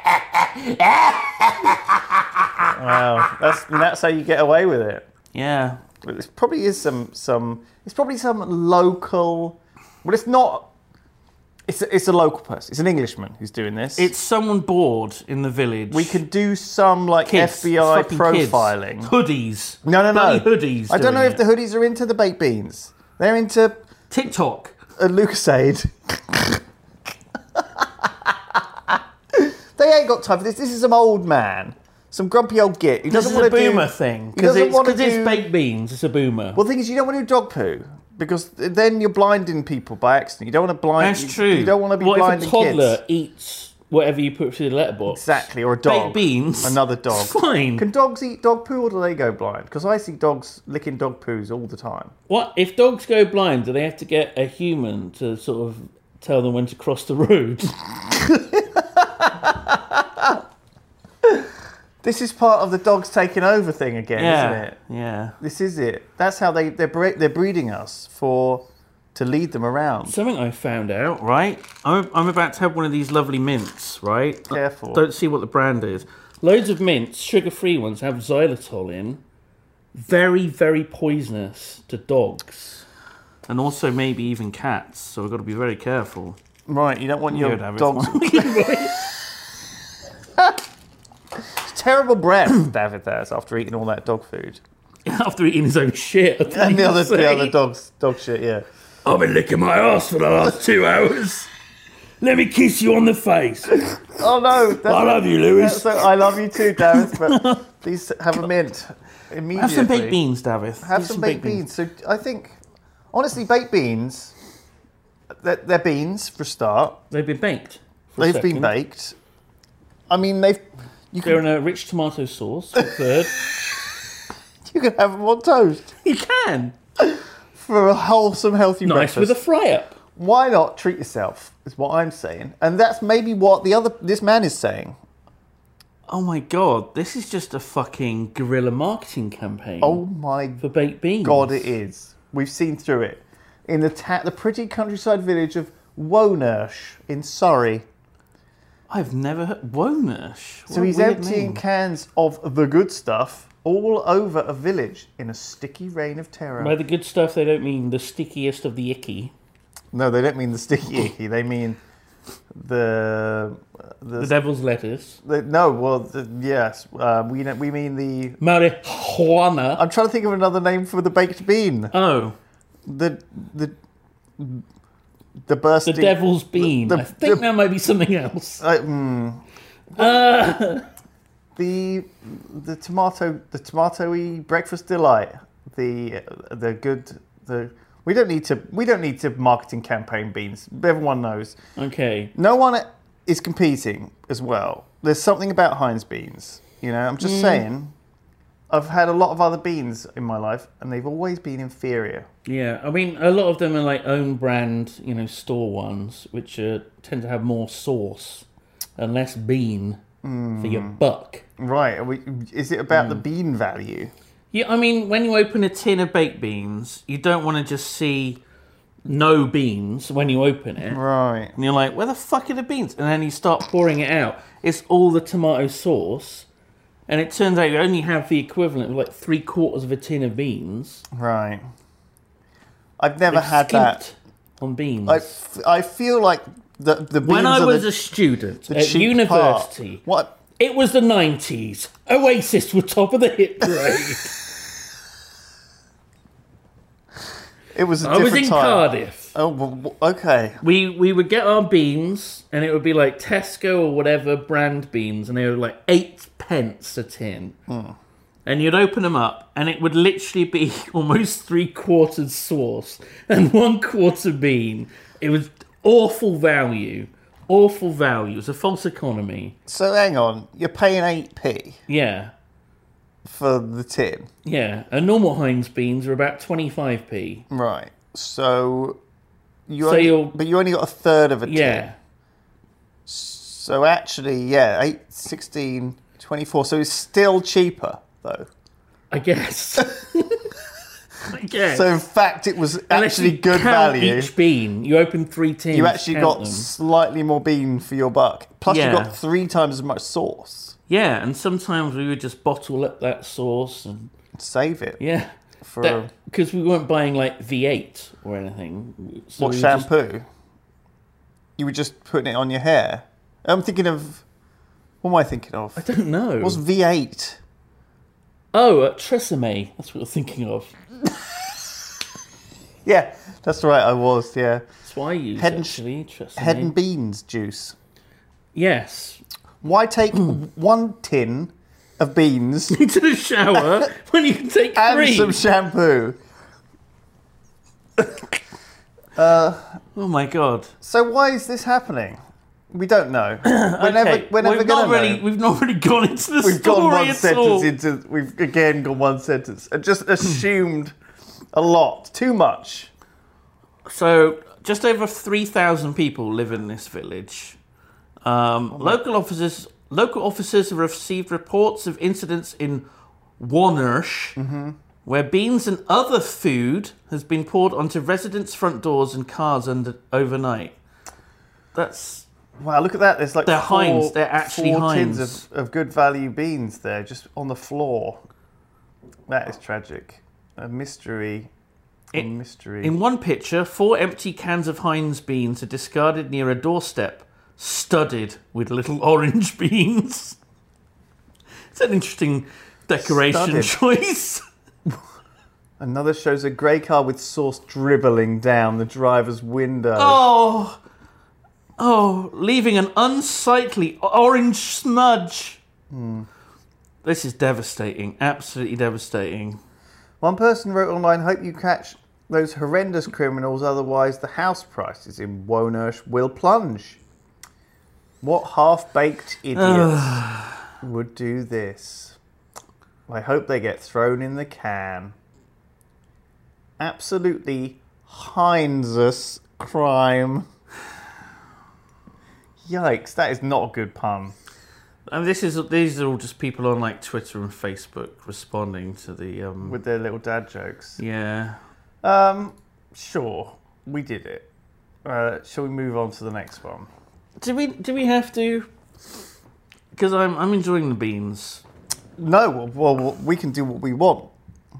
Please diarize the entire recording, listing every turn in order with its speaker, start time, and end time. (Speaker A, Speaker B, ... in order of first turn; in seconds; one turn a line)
Speaker A: 0.4-1.8
Speaker B: 2.7-5.0
Speaker A: 5.3-5.8
Speaker B: 6.0-10.7
Speaker B: 11.7-14.1
Speaker A: 13.9-16.2
Speaker B: 15.9-19.1
Speaker A: 17.2-21.4
Speaker B: 19.8-23.8
Speaker A: 24.1-24.8
Speaker B: 25.0-26.6
Speaker B: 27.5-35.5
Speaker A: 33.1-36.6
Speaker B: 36.5-43.0
Speaker A: 41.0-47.9
Speaker B: 45.1-52.1
Speaker A: 52.3-58.4
Speaker B: 58.7-60.4
Speaker B: 61.2-61.5
Speaker B: 62.0-64.7
Speaker A: 64.1-65.4
Speaker B: 65.4-70.2
Speaker A: 70.0-79.2
Speaker B: 74.5-75.0
Speaker A: 79.9-82.8
Speaker A: 83.5-86.4
Speaker B: 86.7-89.1
Speaker A: 87.3-89.0
Speaker B: 91.5-94.6
Speaker A: 95.0-97.5
Speaker B: 96.5-98.6
Speaker A: 99.0-101.5
Speaker A: 102.2-103.8
Speaker B: 104.1-110.2
Speaker A: 104.8-107.7
Speaker A: 109.5-111.6
Speaker B: 110.8-112.6
Speaker B: 113.1-114.3
Speaker B: 115.4-117.0
Speaker A: 117.1-118.7
Speaker B: 118.2-119.2
Speaker B: 120.1-121.4
Speaker A: 121.2-123.3
Speaker B: 123.4-123.7
Speaker B: 124.7-125.9
Speaker A: 126.0-126.7
Speaker B: 127.0-129.4
Speaker A: 128.8-129.9
Speaker B: 130.2-135.0
Speaker A: 136.1-140.0
Speaker B: 139.8-140.6
Speaker A: 140.6-141.7
Speaker B: 141.2-147.8
Speaker A: 148.9-151.6
Speaker B: 150.7-156.7
Speaker A: 156.6-159.3
Speaker B: 159.9-161.8
Speaker B: 162.5-164.3
Speaker A: 164.2-165.2
Speaker B: 165.2-168.4
Speaker A: 168.4-169.8
Speaker B: 169.8-171.9
Speaker A: 171.9-172.3
Speaker B: 172.8-173.8
Speaker B: 174.4-174.6
Speaker B: 175.4-177.4
Speaker A: 175.8-178.6
Speaker B: 178.6-179.4
Speaker A: 179.9-180.8
Speaker B: 181.6-191.6
Speaker A: 191.8-192.3
Speaker B: 192.3-197.9
Speaker A: 197.2-197.6
Speaker B: 198.7-202.3
Speaker A: 202.4-208.4
Speaker A: 209.0-210.0
Speaker B: 210.2-211.0
Speaker A: 210.6-211.4
Speaker B: 211.6-214.1
Speaker A: 212.9-213.2
Speaker A: 214.5-218.4
Speaker A: 219.0-221.0
Speaker B: 220.9-221.5
Speaker A: 221.6-226.5
Speaker A: 227.1-231.0
Speaker B: 231.1-231.6
Speaker B: 233.0-234.0
Speaker A: 233.3-235.4
Speaker B: 235.1-237.9
Speaker A: 237.2-240.0
Speaker B: 238.7-240.3
Speaker A: 240.6-244.4
Speaker B: 247.7-250.6
Speaker A: 248.0-249.3
Speaker A: 250.6-257.6
Speaker B: 257.7-257.9
Speaker A: 258.4-269.6
Speaker B: 269.7-271.8
Speaker A: 271.9-272.3
Speaker B: 273.2-274.3
Speaker A: 274.4-277.4
Speaker B: 277.5-279.0
Speaker B: 279.7-281.8
Speaker A: 279.8-280.4
Speaker A: 281.4-282.0
Speaker B: 283.1-288.5
Speaker A: 289.1-290.5
Speaker A: 291.3-291.9
Speaker B: 291.6-294.3
Speaker A: 292.9-296.7
Speaker B: 295.7-300.8
Speaker A: 298.7-299.2
Speaker A: 300.9-304.1
Speaker B: 304.4-305.0
Speaker A: 305.0-309.9
Speaker B: 305.6-306.1
Speaker B: 309.4-310.3
Speaker B: 311.6-314.2
Speaker B: 315.0-315.9
Speaker A: 315.8-316.6
Speaker B: 316.4-317.4
Speaker A: 318.5-320.8
Speaker B: 322.8-324.6
Speaker A: 324.8-326.7
Speaker B: 325.4-325.8
Speaker B: 326.4-327.8
Speaker A: 328.5-329.2
Speaker B: 329.6-332.8
Speaker A: 332.7-335.4
Speaker B: 333.5-333.8
Speaker B: 334.7-336.2
Speaker B: 339.1-339.8
Speaker A: 339.9-340.7
Speaker B: 340.8-342.2
Speaker B: 342.7-345.2
Speaker A: 343.4-347.7
Speaker B: 346.4-350.9
Speaker B: 351.5-352.9
Speaker A: 353.9-357.6
Speaker A: 358.2-362.9
Speaker B: 358.7-359.0
Speaker A: 363.4-364.4
Speaker B: 364.4-364.8
Speaker A: 365.0-370.8
Speaker A: 371.7-372.2
Speaker B: 372.6-378.2
Speaker A: 373.4-375.4
Speaker B: 379.3-381.5
Speaker B: 382.1-382.9
Speaker A: 382.8-390.4
Speaker A: 391.7-394.4
Speaker B: 393.0-393.8
Speaker B: 395.8-400.2
Speaker A: 399.9-400.8
Speaker A: 401.8-405.6
Speaker B: 405.9-406.3
Speaker A: 407.0-409.6
Speaker B: 410.2-417.0
Speaker B: 418.2-420.2
Speaker A: 419.5-420.6
Speaker B: 420.8-422.2
Speaker B: 423.1-425.1
Speaker B: 426.8-430.5
Speaker B: 432.6-434.3
Speaker A: 435.1-439.8
Speaker B: 439.6-441.0
Speaker A: 441.0-441.6
Speaker B: 442.0-444.4
Speaker B: 445.0-446.9
Speaker A: 447.4-448.7
Speaker A: 449.9-451.6
Speaker B: 452.2-454.3